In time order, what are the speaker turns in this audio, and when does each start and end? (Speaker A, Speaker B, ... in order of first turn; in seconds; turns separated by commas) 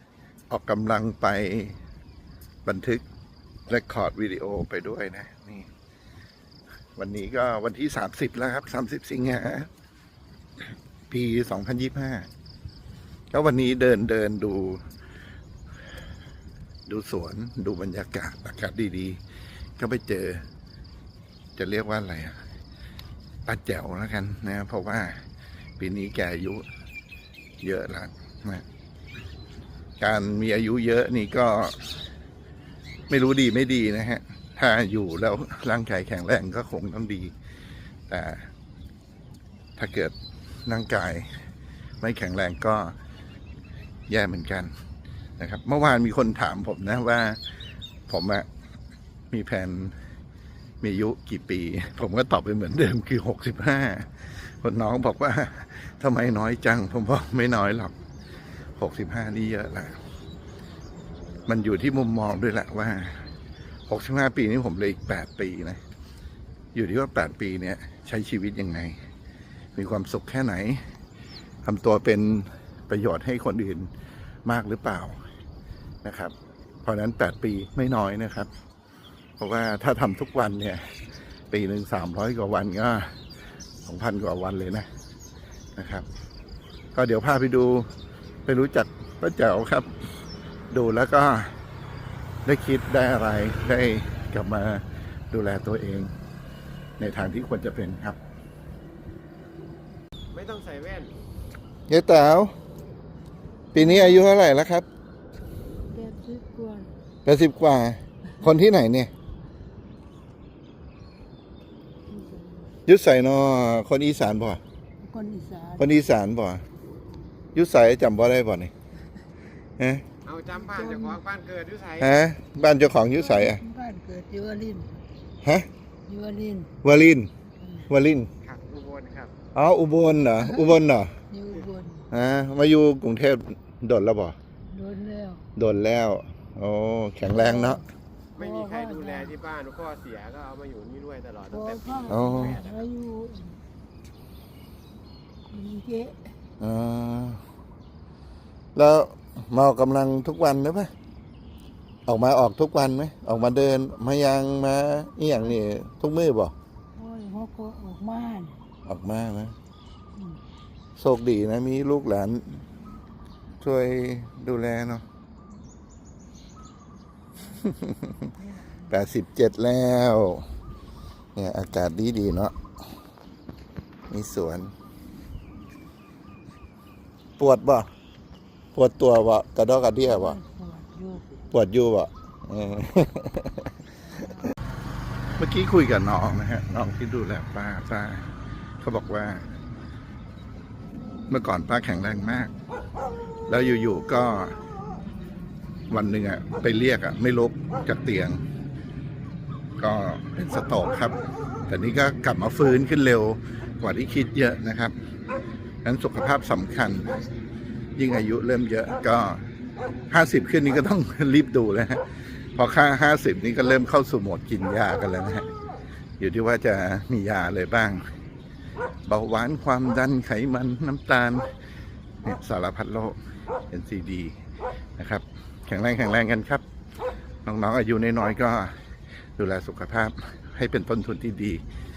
Speaker A: 0.5-1.8, Speaker A: 2.6-3.0, Speaker A: 3.7-5.7, Speaker A: 7.0-9.7, Speaker A: 11.1-12.3, Speaker A: 13.3-14.8, Speaker A: 16.9-19.2, Speaker A: 19.8-20.4, Speaker A: 21.6-22.4, Speaker A: 23.5-25.2, Speaker A: 25.8-26.6, Speaker A: 27.6-28.6, Speaker A: 30.0-31.9, Speaker A: 33.1-37.3, Speaker A: 38.1-38.5, Speaker A: 39.8-40.1, Speaker A: 40.7-41.3, Speaker A: 42.0-43.0, Speaker A: 44.1-44.7, Speaker A: 45.4-47.4, Speaker A: 48.1-48.5, Speaker A: 49.3-50.0, Speaker A: 50.8-57.9, Speaker A: 58.8-60.0, Speaker A: 61.5-63.2, Speaker A: 63.9-65.8, Speaker A: 66.7-69.0, Speaker A: 69.7-70.8, Speaker A: 71.6-73.9, Speaker A: 74.4-75.2, Speaker A: 76.0-78.5, Speaker A: 79.4-80.8, Speaker A: 81.5-83.1, Speaker A: 83.8-84.9, Speaker A: 85.8-86.0, Speaker A: 86.9-87.9, Speaker A: 88.5-89.9, Speaker A: 90.7-91.5, Speaker A: 92.4-96.1, Speaker A: 97.0-98.2, Speaker B: 100.3-101.1, Speaker A: 101.9-102.5, Speaker A: 103.7-104.9, Speaker C: 103.7-104.3, Speaker C: 105.9-106.9, Speaker A: 107.2-109.1, Speaker C: 112.1-112.7, Speaker A: 112.8-114.6, Speaker C: 115.0-115.9, Speaker A: 115.8-116.6, Speaker A: 117.5-118.7, Speaker A: 119.8-120.0, Speaker B: 120.2-122.2, Speaker C: 120.7-121.2, Speaker A: 122.0-123.6, Speaker C: 123.1-125.0, Speaker A: 125.4-125.7, Speaker C: 126.1-126.8, Speaker A: 126.8-127.3, Speaker C: 127.6-127.9, Speaker A: 127.9-128.3, Speaker B: 128.4-129.3, Speaker A: 129.5-131.1, Speaker C: 130.4-132.1, Speaker A: 132.1-134.4, Speaker C: 134.7-135.5, Speaker A: 135.6-137.8, Speaker C: 137.3-137.8, Speaker B: 138.3-142.8, Speaker C: 138.4-139.3, Speaker C: 141.5-143.6, Speaker A: 142.1-142.6, Speaker C: 145.5-146.3, Speaker A: 146.6-147.4, Speaker A: 148.8-150.9, Speaker A: 152.1-156.5, Speaker C: 156.9-158.6, Speaker A: 158.8-159.6, Speaker C: 160.1-160.4, Speaker A: 160.9-162.6, Speaker A: 163.6-165.0, Speaker A: 167.6-168.3, Speaker C: 168.4-168.7, Speaker A: 168.9-170.5, Speaker A: 171.3-172.5, Speaker A: 174.1-174.7, Speaker A: 177.4-177.9, Speaker A: 178.7-180.4, Speaker C: 180.0-181.4, Speaker A: 181.5-183.6, Speaker A: 185.4-189.4, Speaker A: 191.3-192.5, Speaker A: 193.5-194.6, Speaker A: 195.9-198.4, Speaker A: 199.8-201.2, Speaker A: 201.7-204.9, Speaker A: 205.8-207.1, Speaker A: 207.9-209.4, Speaker A: 210.1-215.5, Speaker A: 216.2-218.0, Speaker A: 219.1-221.5, Speaker A: 222.2-223.2, Speaker A: 223.7-224.4, Speaker A: 225.0-226.6, Speaker A: 227.4-228.8, Speaker A: 229.4-231.6